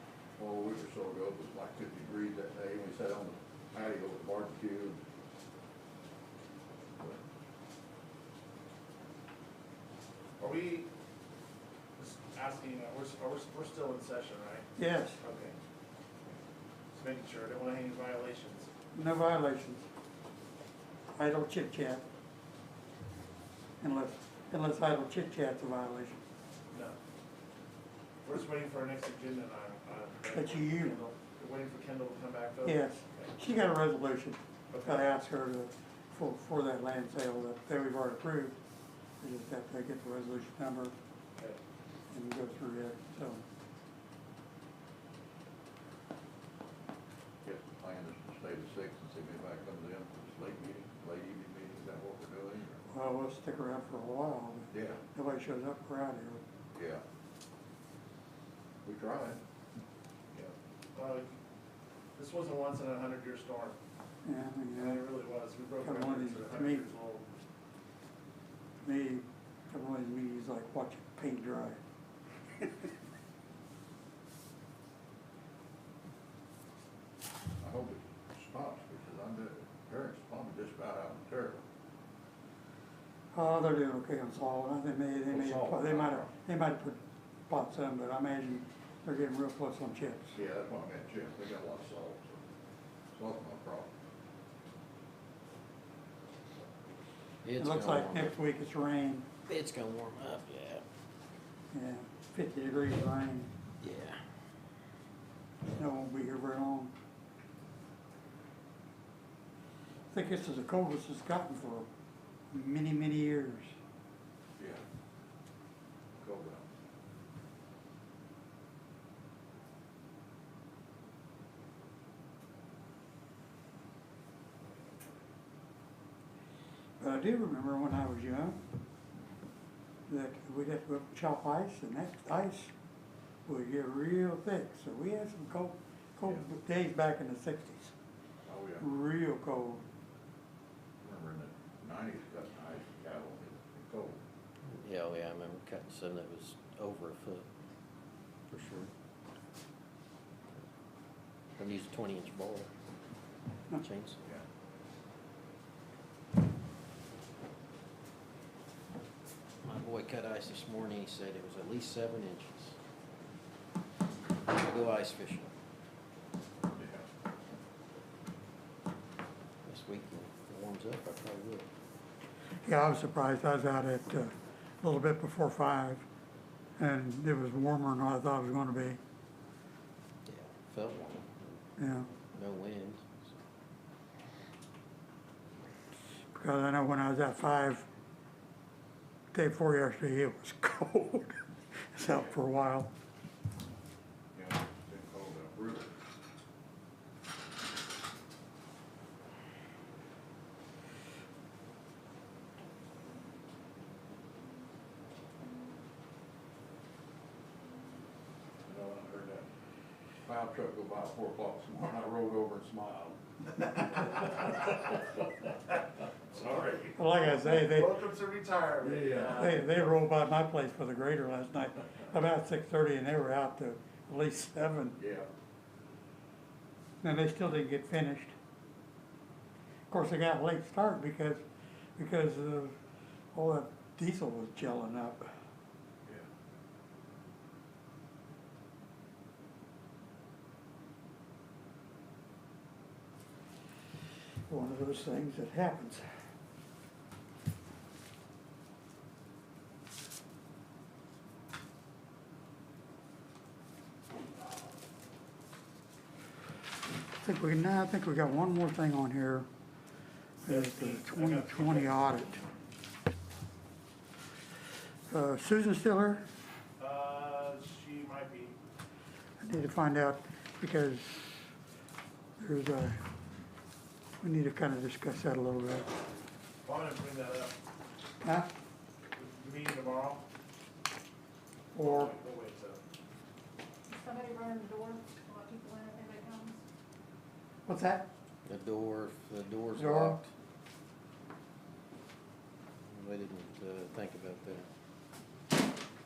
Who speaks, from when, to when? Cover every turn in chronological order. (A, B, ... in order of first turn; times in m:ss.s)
0:00.4-0:05.0 A
0:10.4-0:10.9 B
0:12.0-0:14.7 B
0:14.8-0:15.2 C
0:15.2-0:15.6 B
0:16.9-0:18.7 B
0:18.9-0:19.9 C
0:21.1-0:22.0 C
0:23.8-0:26.2 C
0:28.2-0:33.3 B
0:30.3-0:31.0 C
0:32.6-0:38.6 C
0:34.7-0:35.0 B
0:39.2-0:41.0 C
0:42.1-0:43.4 C
0:47.4-0:52.9 A
0:52.9-0:56.4 C
0:54.7-0:55.0 A
0:56.7-0:57.0 A
0:58.8-0:59.4 A
1:00.3-1:01.3 B
1:02.2-1:03.8 B
1:04.2-1:05.1 C
1:04.8-1:07.3 B
1:05.8-1:06.8 C
1:08.8-1:11.8 C
1:12.6-1:12.9 C
1:17.6-1:21.6 A
1:23.3-1:30.4 C
1:25.3-1:26.3 A
1:30.4-1:32.4 A
1:33.1-1:33.9 A
1:37.4-1:38.3 D
1:37.6-1:39.3 C
1:39.5-1:40.8 D
1:41.7-1:43.5 C
1:43.8-1:44.2 D
1:45.7-1:46.9 C
1:50.1-1:51.9 C
1:52.5-1:53.8 C
1:54.6-1:54.8 A
1:56.2-1:56.7 A
2:07.0-2:08.6 C
2:10.1-2:12.7 C
2:13.5-2:17.9 C
2:18.5-2:18.9 A
2:18.8-2:19.8 C
2:21.0-2:24.2 A
2:24.8-2:27.5 D
2:28.5-2:28.9 D
2:31.6-2:32.7 D
2:33.8-2:34.2 D
2:39.6-2:42.8 D
2:44.4-2:45.5 D
2:46.7-2:47.1 A
2:49.7-2:51.7 D
2:52.6-2:56.0 C
2:56.8-2:59.0 C
3:00.3-3:01.6 D
3:01.8-3:02.1 C
3:02.2-3:03.4 D
3:06.3-3:07.9 C
3:09.3-3:11.4 C
3:11.9-3:12.9 C
3:14.3-3:15.9 A
3:28.6-3:29.5 A
3:30.2-3:34.5 A
3:36.3-3:36.9 A
3:36.8-3:39.9 B
3:37.0-3:38.0 C
3:38.8-3:39.6 A
3:39.3-3:45.0 C
3:45.0-3:45.3 A
3:47.0-3:48.3 C
3:49.9-3:51.4 C
3:52.0-3:52.8 C
3:53.3-3:55.3 C
4:04.5-4:06.0 C
4:17.2-4:19.5 C
4:20.4-4:22.4 C
4:20.4-4:22.0 B
4:25.1-4:26.3 C
4:26.8-4:28.6 B
4:29.4-4:31.4 C
4:32.4-4:33.0 C
4:34.2-4:36.0 C
4:36.6-4:37.6 B
4:38.2-4:38.5 C
4:39.2-4:40.2 B
4:41.7-4:42.1 C
4:41.8-4:42.8 B
4:43.9-4:46.6 E
4:47.7-4:48.1 C
4:48.4-4:50.3 D
4:49.8-4:50.2 C
4:52.9-4:54.7 D